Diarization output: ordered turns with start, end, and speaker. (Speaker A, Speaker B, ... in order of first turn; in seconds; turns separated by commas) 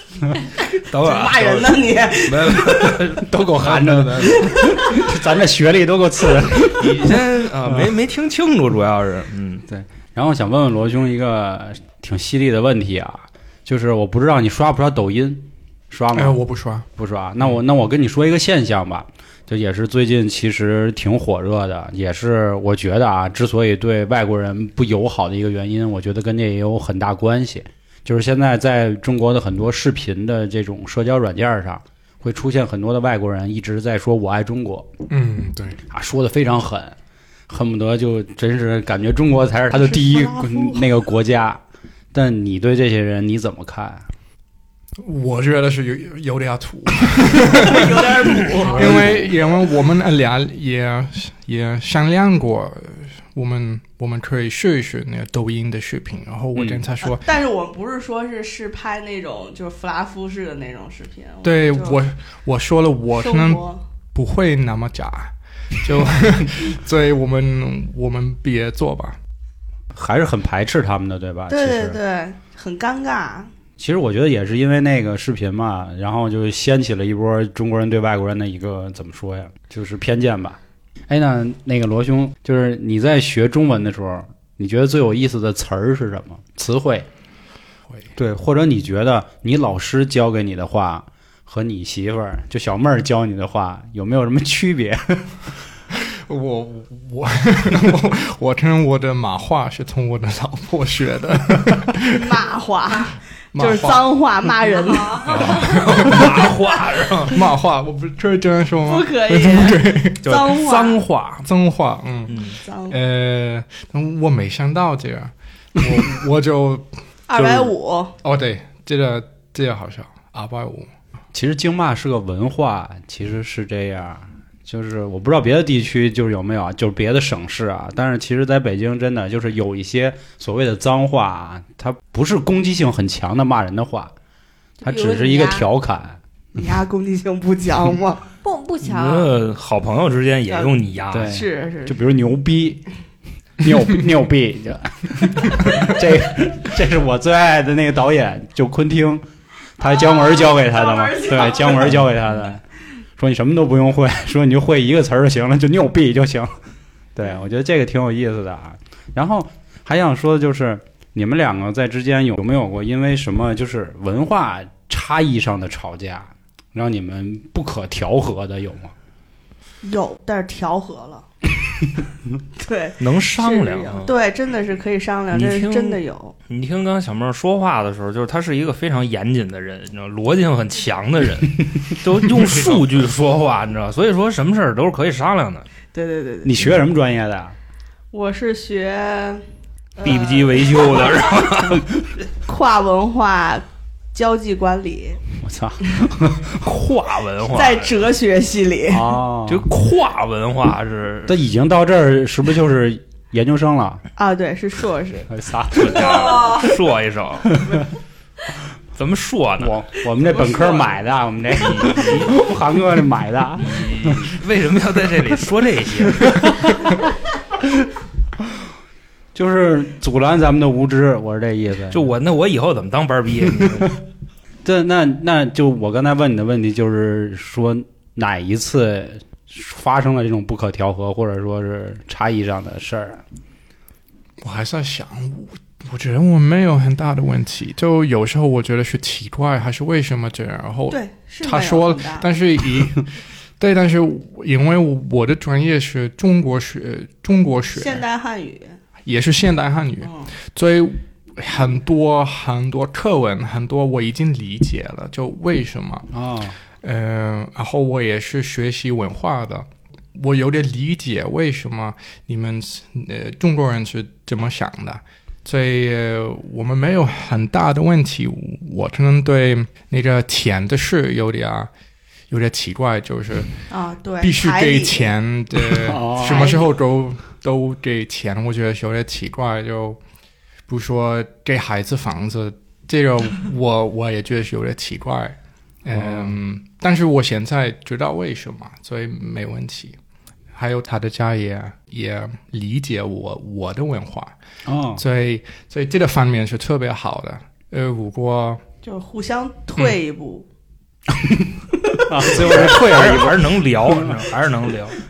Speaker A: 0.8-3.0, Speaker B: 0.9-4.4, Speaker C: 3.2-7.9, Speaker A: 4.2-4.8, Speaker B: 6.8-9.6, Speaker C: 9.7-16.4, Speaker D: 16.1-16.9, Speaker C: 17.0-34.9, Speaker D: 35.1-35.8, Speaker C: 35.9-37.0, Speaker C: 37.5-41.6, Speaker A: 39.7-40.9, Speaker C: 42.1-44.1, Speaker D: 45.0-57.3, Speaker A: 47.5-49.2, Speaker C: 48.6-49.3, Speaker C: 56.5-56.9, Speaker A: 57.1-62.0, Speaker D: 61.4-63.6, Speaker A: 63.2-63.8, Speaker D: 64.1-69.2, Speaker C: 69.9-72.0, Speaker A: 71.5-73.5, Speaker C: 73.8-87.1, Speaker C: 88.2-95.3, Speaker D: 95.9-102.3, Speaker A: 102.2-105.3, Speaker D: 103.5-104.1, Speaker E: 104.8-105.8, Speaker D: 105.2-106.5, Speaker B: 105.5-107.4, Speaker D: 107.2-110.2, Speaker A: 108.9-111.0, Speaker B: 110.2-111.5, Speaker D: 111.4-112.4, Speaker B: 112.3-112.6, Speaker A: 112.6-113.0, Speaker D: 112.9-120.9, Speaker A: 117.3-118.2, Speaker C: 121.3-134.1, Speaker E: 134.8-135.7, Speaker C: 134.8-136.2, Speaker A: 136.6-138.2, Speaker E: 138.4-139.3, Speaker B: 138.8-141.4, Speaker A: 140.5-142.0, Speaker C: 141.1-142.8, Speaker C: 143.6-149.2, Speaker C: 149.8-152.6, Speaker A: 149.8-152.1, Speaker C: 153.2-156.6, Speaker C: 157.2-168.9, Speaker A: 169.8-171.3, Speaker A: 172.6-176.3, Speaker B: 173.0-174.1, Speaker B: 175.3-185.7, Speaker A: 185.9-186.6, Speaker C: 186.4-187.6, Speaker A: 188.1-189.4, Speaker A: 190.0-191.3, Speaker B: 190.0-191.9, Speaker A: 192.4-195.2, Speaker C: 195.4-196.7, Speaker B: 196.6-198.0, Speaker A: 197.5-199.2, Speaker C: 198.9-199.7, Speaker B: 199.5-201.4, Speaker C: 201.3-204.0, Speaker A: 204.2-205.3, Speaker C: 205.3-206.6, Speaker B: 205.8-207.6, Speaker E: 206.2-206.7, Speaker B: 208.9-209.8, Speaker C: 209.6-214.3, Speaker A: 210.4-210.9, Speaker B: 211.6-212.4, Speaker B: 213.6-216.5, Speaker C: 216.2-216.5, Speaker C: 219.3-222.1, Speaker B: 221.9-224.0, Speaker C: 223.4-223.9, Speaker C: 224.6-233.2, Speaker D: 234.4-248.0, Speaker A: 240.9-242.3, Speaker A: 247.7-248.8, Speaker D: 249.0-256.1, Speaker A: 250.0-250.3, Speaker C: 256.1-256.6, Speaker D: 256.8-271.7, Speaker D: 272.3-273.6, Speaker A: 273.7-275.1, Speaker D: 274.2-280.0, Speaker C: 275.6-276.6, Speaker A: 276.3-276.7, Speaker D: 280.7-290.0, Speaker C: 285.9-286.4, Speaker D: 290.5-294.4, Speaker C: 294.6-295.0, Speaker D: 295.0-298.6, Speaker A: 298.8-300.5, Speaker C: 301.1-304.2, Speaker B: 302.4-305.0